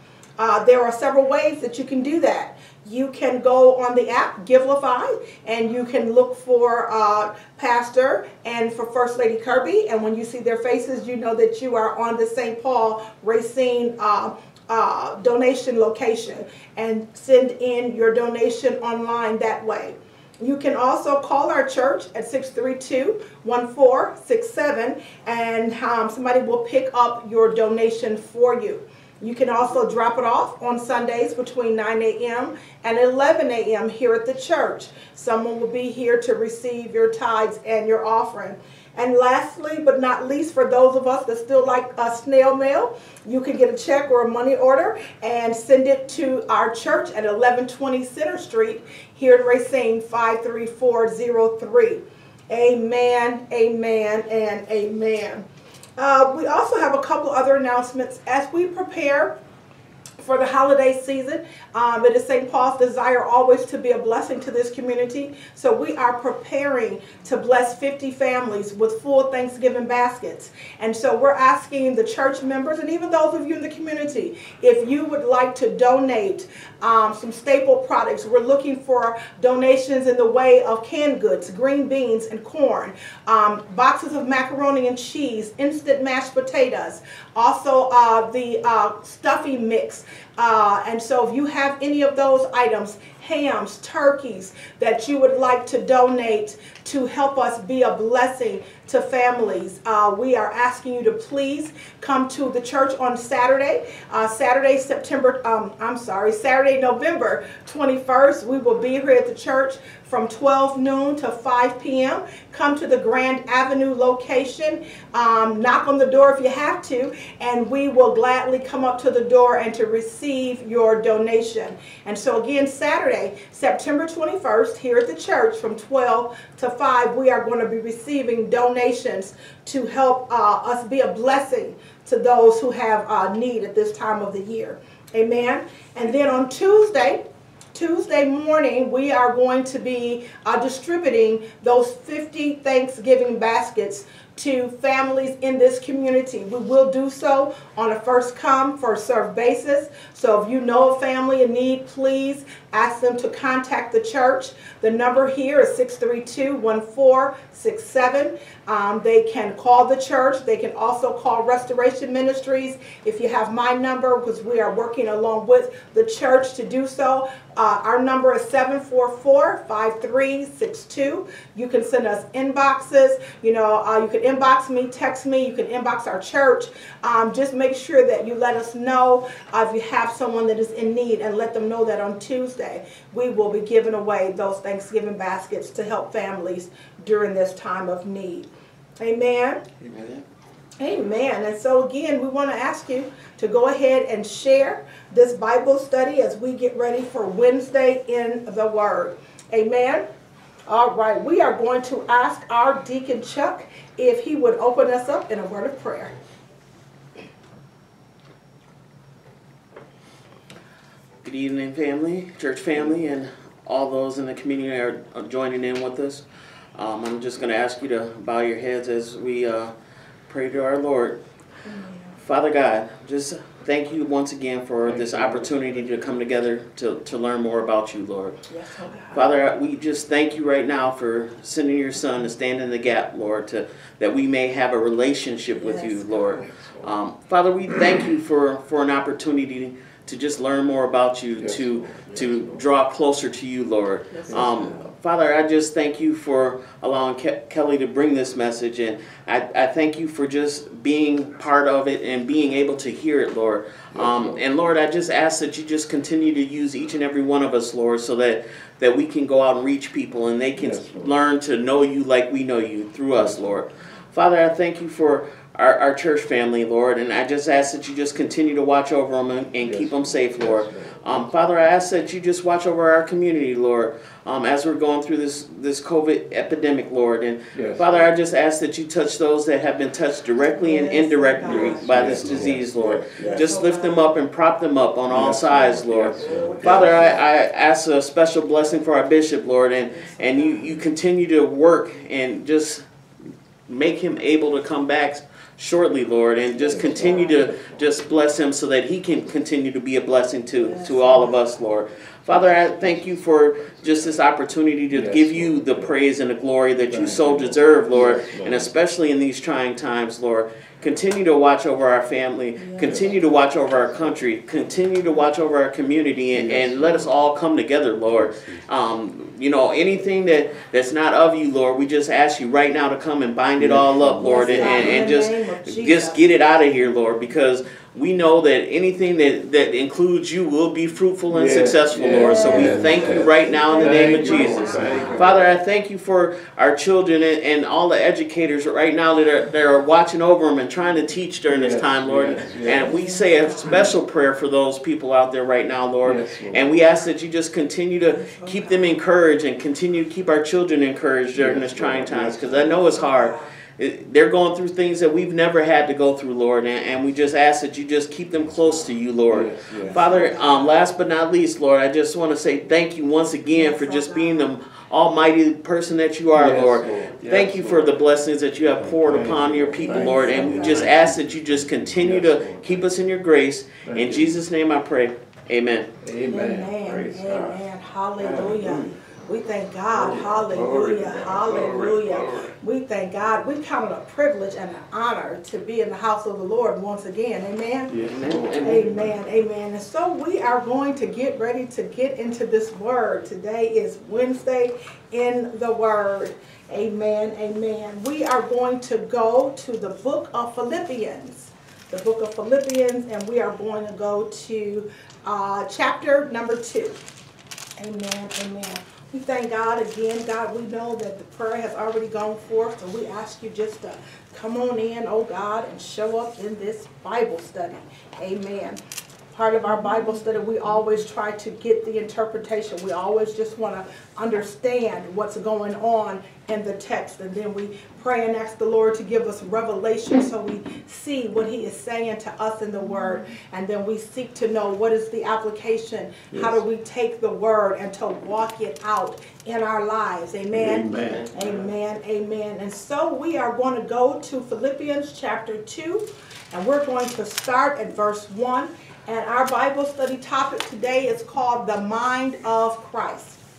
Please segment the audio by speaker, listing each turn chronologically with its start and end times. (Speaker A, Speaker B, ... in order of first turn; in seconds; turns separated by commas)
Speaker A: 0.4-55.5, Speaker A: 56.0-59.3, Speaker A: 60.2-137.2, Speaker A: 137.7-188.5, Speaker A: 189.0-189.7, Speaker B: 189.9-190.2, Speaker A: 190.8-200.0, Speaker A: 200.7-206.1, Speaker B: 211.2-216.2, Speaker B: 216.8-219.7, Speaker B: 220.3-221.2, Speaker A: 221.7-222.2, Speaker B: 222.2-228.4, Speaker C: 224.8-226.1, Speaker A: 228.5-229.4, Speaker B: 229.1-292.8, Speaker A: 235.6-236.3, Speaker C: 236.1-236.9, Speaker C: 241.4-242.7, Speaker A: 244.1-244.8, Speaker C: 244.3-244.9, Speaker C: 253.9-254.4, Speaker C: 260.6-261.2, Speaker C: 263.1-263.6, Speaker C: 269.6-271.3, Speaker C: 277.5-278.1, Speaker A: 280.5-282.3, Speaker C: 281.4-283.5, Speaker A: 283.2-284.1, Speaker C: 285.1-287.3, Speaker A: 286.2-287.0, Speaker A: 289.9-290.8, Speaker B: 293.7-375.9, Speaker C: 296.5-298.4, Speaker A: 297.0-297.4, Speaker A: 300.5-301.5, Speaker C: 302.3-303.2, Speaker C: 304.9-306.0, Speaker C: 306.9-308.7, Speaker A: 312.6-313.2, Speaker C: 312.8-314.2, Speaker C: 316.3-317.2, Speaker C: 318.1-318.6, Speaker C: 323.6-325.3, Speaker A: 324.2-326.3, Speaker C: 331.3-335.6, Speaker A: 332.1-335.4, Speaker C: 341.5-343.0, Speaker A: 342.7-343.9, Speaker C: 346.0-346.8, Speaker A: 348.1-349.0, Speaker C: 351.3-353.0, Speaker A: 352.9-353.6, Speaker C: 359.3-360.7, Speaker A: 359.9-360.7, Speaker A: 363.5-364.5, Speaker C: 366.3-368.0, Speaker C: 368.6-373.0, Speaker A: 369.8-371.0, Speaker C: 373.9-374.4, Speaker C: 376.0-377.6, Speaker A: 376.3-387.9, Speaker C: 378.2-379.1, Speaker C: 379.9-382.5, Speaker C: 387.9-389.1, Speaker B: 388.1-389.0, Speaker A: 388.6-407.0, Speaker A: 407.8-418.8, Speaker A: 419.3-453.4, Speaker C: 436.3-436.6, Speaker C: 440.5-441.3, Speaker B: 441.1-441.7